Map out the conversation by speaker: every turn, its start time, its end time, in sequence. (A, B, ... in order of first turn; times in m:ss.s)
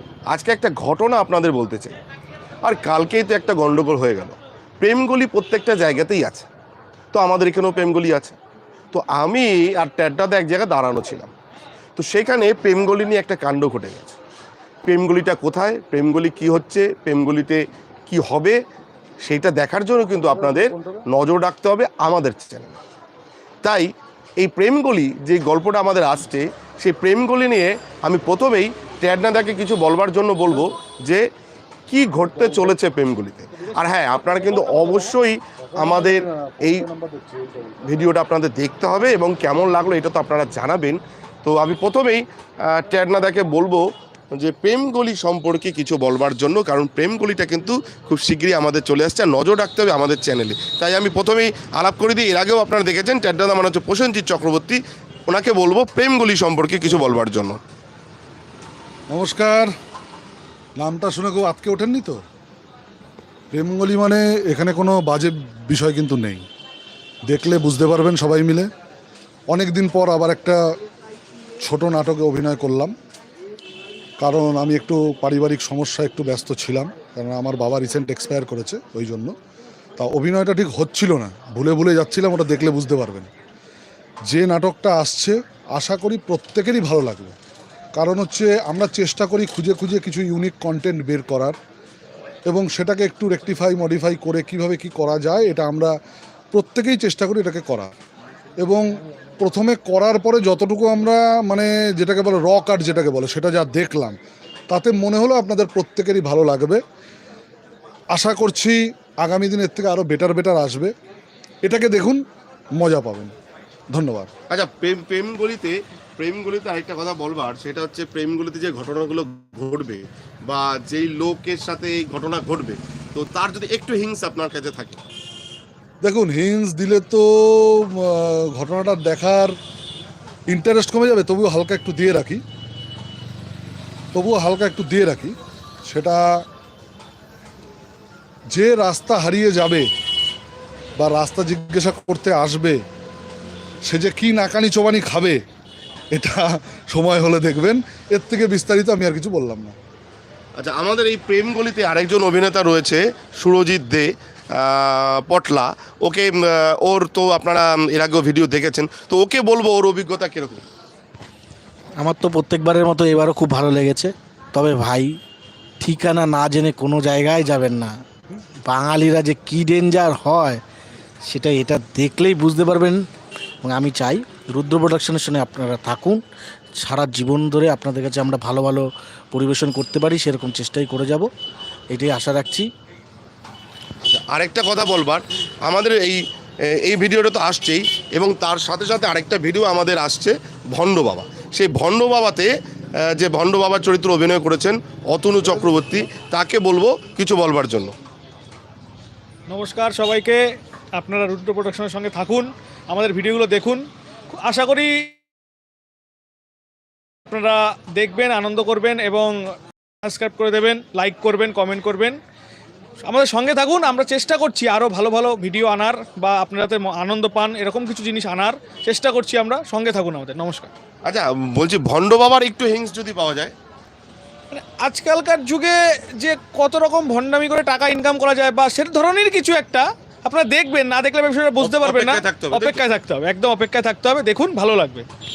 0:00.3-0:02.0 A
0:02.6-0:06.4 A
0:07.1-0:08.4 A
0:08.9-0:11.3 A
0:12.0-0:14.1 A
0:14.8-0:18.6 A
0:19.2-0:22.8 A
0:20.4-0:21.0 B
0:23.6-0:31.2 A
0:31.9-0:36.9 A
0:35.7-0:37.8 B
0:37.8-0:57.6 A
0:59.1-0:59.7 B
1:00.8-1:02.2 B
1:03.5-1:06.4 B
1:07.3-1:08.7 B
1:09.5-1:10.6 B
1:11.6-1:12.9 B
1:14.2-1:19.3 B
1:20.0-1:23.3 B
1:24.3-1:27.3 B
1:28.0-1:31.6 B
1:32.5-1:35.9 B
1:36.5-1:37.9 B
1:39.4-1:44.2 B
1:44.7-1:46.8 B
1:48.1-1:50.9 B
1:51.6-1:52.2 B
1:52.8-1:53.3 B
1:53.9-1:54.3 B
1:54.5-2:05.0 A
2:06.0-2:09.6 B
2:10.5-2:12.4 B
2:14.1-2:16.4 B
2:18.5-2:19.8 B
2:21.0-2:22.8 B
2:23.8-2:25.4 B
2:26.1-2:29.7 B
2:30.6-2:40.6 A
2:42.0-2:45.2 C
2:45.8-2:47.9 C
2:48.6-2:50.6 C
2:51.2-2:53.0 C
2:53.6-2:56.2 C
2:56.8-3:01.3 C
3:01.9-3:02.7 C
3:04.0-3:12.5 A
3:13.1-3:17.9 A
3:19.5-3:20.4 D
3:21.0-3:25.1 D
3:27.3-3:29.4 D
3:30.0-3:32.2 D
3:33.0-3:40.7 D
3:41.0-3:43.5 A
3:44.5-3:55.0 D
3:51.6-3:52.8 A